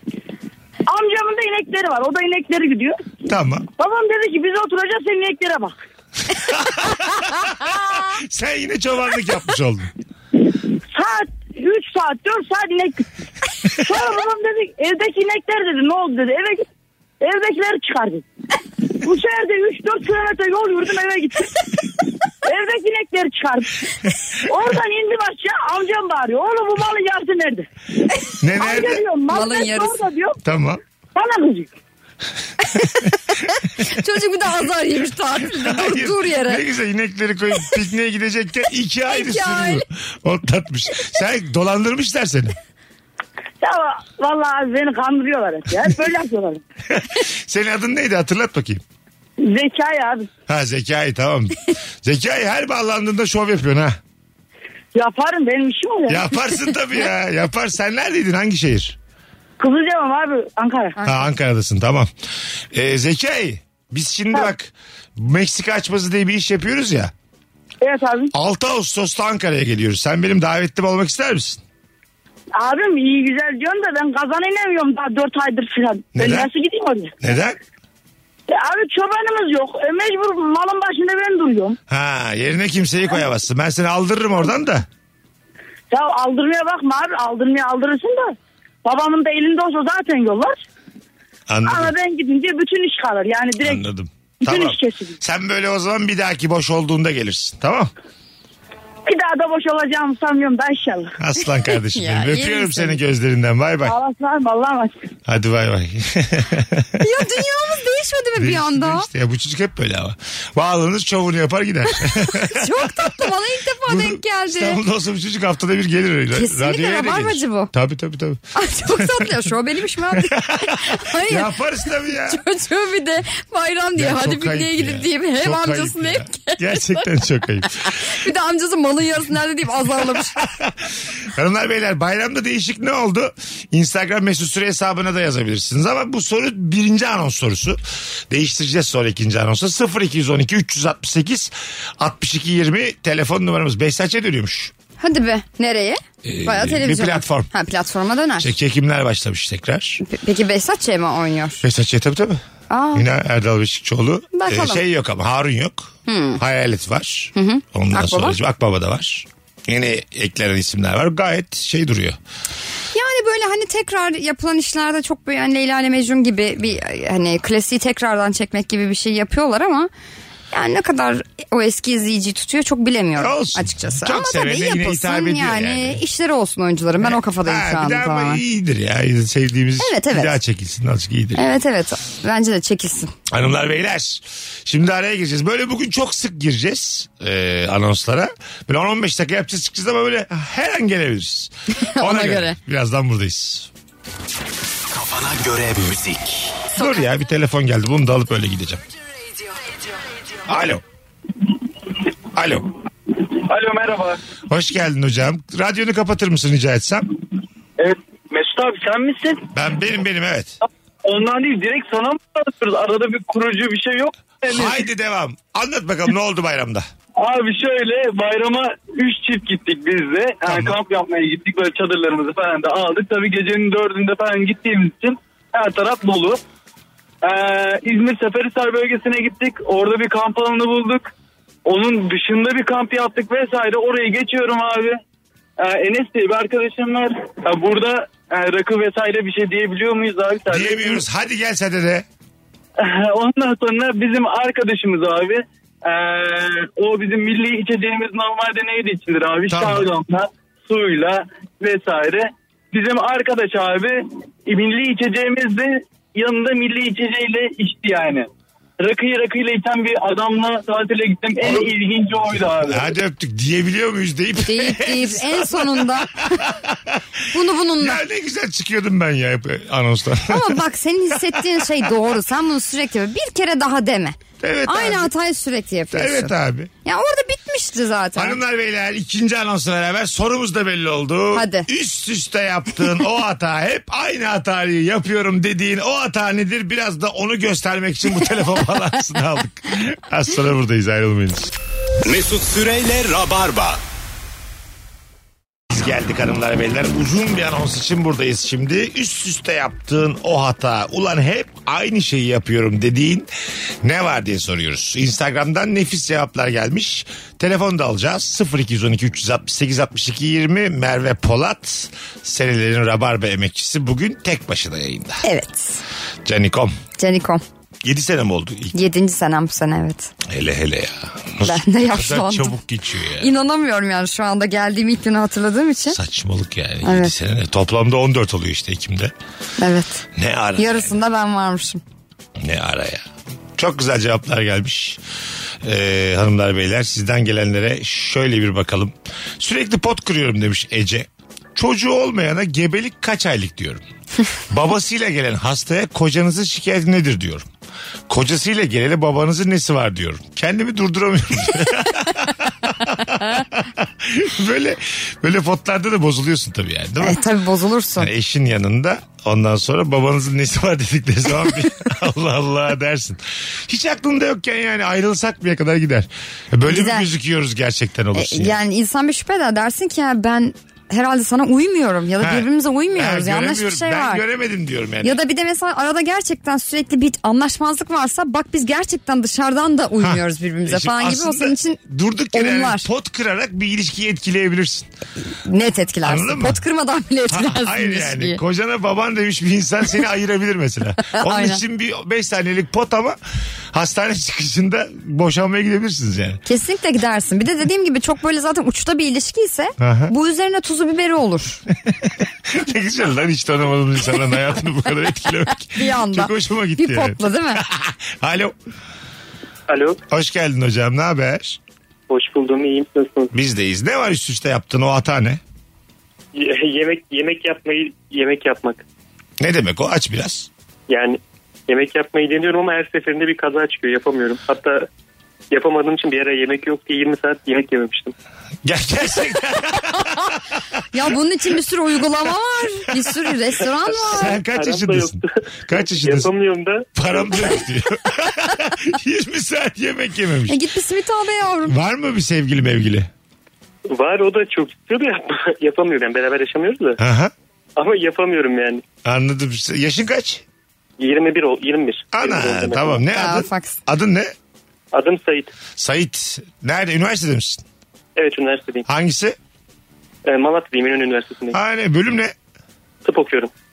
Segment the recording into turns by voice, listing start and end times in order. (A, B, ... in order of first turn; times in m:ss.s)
0:00.9-0:03.0 A
0:03.3-0:03.6 B
0:03.8-0:05.8 A
0:06.3-0:09.9 B
0:10.9-0:13.1 A
0:13.7-0:16.7 A
0:17.2-0:18.2 A
0:19.0-0:21.6 A
0:22.4-0:23.8 A
0:24.4-0:27.7 A
0:28.4-0:29.0 B
0:28.5-0:30.4 A
0:29.3-0:30.0 C
0:30.4-0:30.8 B
0:31.1-0:31.7 A
0:32.7-0:36.6 C
0:35.4-0:42.5 B
0:39.1-0:39.8 C
0:43.6-0:46.6 A
0:46.9-0:48.8 B
0:49.4-0:50.3 A
0:50.5-0:54.0 B
0:54.9-0:56.2 A
0:56.1-0:59.0 B
0:59.6-1:01.0 A
1:01.0-1:02.1 B
1:02.7-1:07.1 B
1:07.8-1:08.3 A
1:08.3-1:11.6 B
1:12.6-1:17.2 A
1:16.2-1:16.5 B
1:17.2-1:17.6 B
1:18.5-1:21.8 A
1:21.9-1:24.8 B
1:25.9-1:28.3 A
1:28.8-1:30.6 A
1:31.5-1:31.9 B
1:31.6-1:33.8 A
1:33.6-1:37.9 B
1:34.4-1:35.2 A
1:39.0-1:41.2 A
1:41.2-1:44.0 B
1:41.9-1:43.0 C
1:43.8-1:45.1 A
1:45.3-1:47.0 B
1:47.0-1:49.1 C
1:48.4-1:53.1 B
1:52.1-1:54.8 C
1:53.8-1:59.4 B
1:56.3-1:57.7 C
1:58.5-2:01.5 C
2:00.1-2:02.4 B
2:02.2-2:07.1 C
2:04.0-2:07.9 B
2:07.8-2:10.4 C
2:10.4-2:10.7 B
2:11.3-2:24.7 B
2:25.0-2:28.5 C
2:26.2-2:27.5 B
2:28.4-2:30.0 B
2:30.0-2:31.6 C
2:31.6-2:32.4 B
2:32.7-2:33.1 C
2:32.9-2:42.2 B
2:34.3-2:34.8 C
2:36.1-2:36.4 C
2:37.3-2:38.4 C
2:42.9-2:49.9 C
2:50.5-2:58.4 C
2:53.2-2:56.0 B
2:57.0-3:01.5 B
2:59.8-3:00.4 C
3:01.4-3:03.1 C
3:03.3-3:13.7 B
3:11.8-3:12.6 C
3:14.9-3:16.6 D
3:16.7-3:18.8 B
3:20.5-3:20.8 B
3:22.3-3:22.7 B
3:23.1-3:24.2 E
3:24.5-3:27.1 B
3:27.8-3:29.5 E
3:29.5-3:30.6 B
3:31.0-3:34.8 E
3:34.5-3:36.9 B
3:37.2-3:46.4 E
3:40.4-3:40.8 B
3:47.2-3:51.1 E
3:51.6-3:55.0 E
3:55.6-4:01.0 E
4:00.5-4:02.0 B
4:02.8-4:18.3 E
4:09.5-4:09.9 B
4:18.8-4:22.9 E
4:21.4-4:21.7 B
4:22.6-4:27.0 B
4:24.4-4:26.4 C
4:27.3-4:28.0 C
4:27.8-4:30.6 B
4:30.3-4:36.3 C
4:31.2-4:31.6 B
4:34.4-4:35.1 B
4:35.9-4:36.7 B
4:36.8-4:38.4 C
4:38.2-4:51.5 B
4:41.3-4:41.7 C
4:52.0-4:53.8 D
4:55.7-5:03.3 B
5:03.8-5:15.2 B
5:15.2-5:15.8 C
5:16.2-5:16.8 B
5:17.0-5:17.4 C
5:17.8-5:18.7 B
5:18.7-5:20.1 C
5:20.2-5:23.3 B
5:21.4-5:22.6 C
5:23.2-5:26.0 C
5:25.9-5:29.1 B
5:26.8-5:27.1 C
5:29.6-5:30.0 C
5:30.1-5:30.9 B
5:30.6-5:31.8 C
5:32.4-5:35.0 B
5:35.6-5:43.8 B
5:44.5-5:47.5 B
5:48.1-5:57.2 B
5:57.0-5:58.1 C
5:58.0-6:08.6 B
6:06.7-6:07.1 C
6:08.1-6:14.2 C
6:12.2-6:15.2 B
6:15.0-6:21.8 C
6:20.0-6:24.9 B
6:22.3-6:22.9 C
6:25.4-6:28.4 C
6:26.0-6:26.6 B
6:27.3-6:33.2 B
6:31.0-6:31.6 C
6:33.7-6:36.4 B
6:36.4-6:41.6 C
6:39.8-6:40.1 B
6:41.8-6:48.5 B
6:45.8-6:47.6 C
6:49.7-6:50.0 F
6:50.1-6:51.6 B
6:52.1-6:53.3 F
6:53.3-6:55.4 B
6:56.3-6:58.8 F
6:59.4-7:00.5 B
7:00.9-7:04.9 F
7:05.5-7:08.1 F
7:08.6-7:10.0 B
7:10.9-7:14.4 C
7:13.9-7:16.3 B
7:14.4-7:15.3 F
7:15.9-7:17.6 F
7:16.9-7:20.6 B
7:20.5-7:21.8 C
7:21.6-7:23.1 B
7:23.9-7:27.0 F
7:27.0-7:27.3 B
7:27.8-7:28.8 F
7:29.0-7:30.4 B
7:31.0-7:33.0 F
7:32.1-7:34.3 B
7:33.1-7:33.8 C
7:34.9-7:35.5 F
7:35.8-7:37.6 B
7:38.2-7:38.9 F
7:38.9-7:39.4 B
7:40.2-7:41.6 F
7:41.5-7:42.3 B
7:43.0-7:43.5 F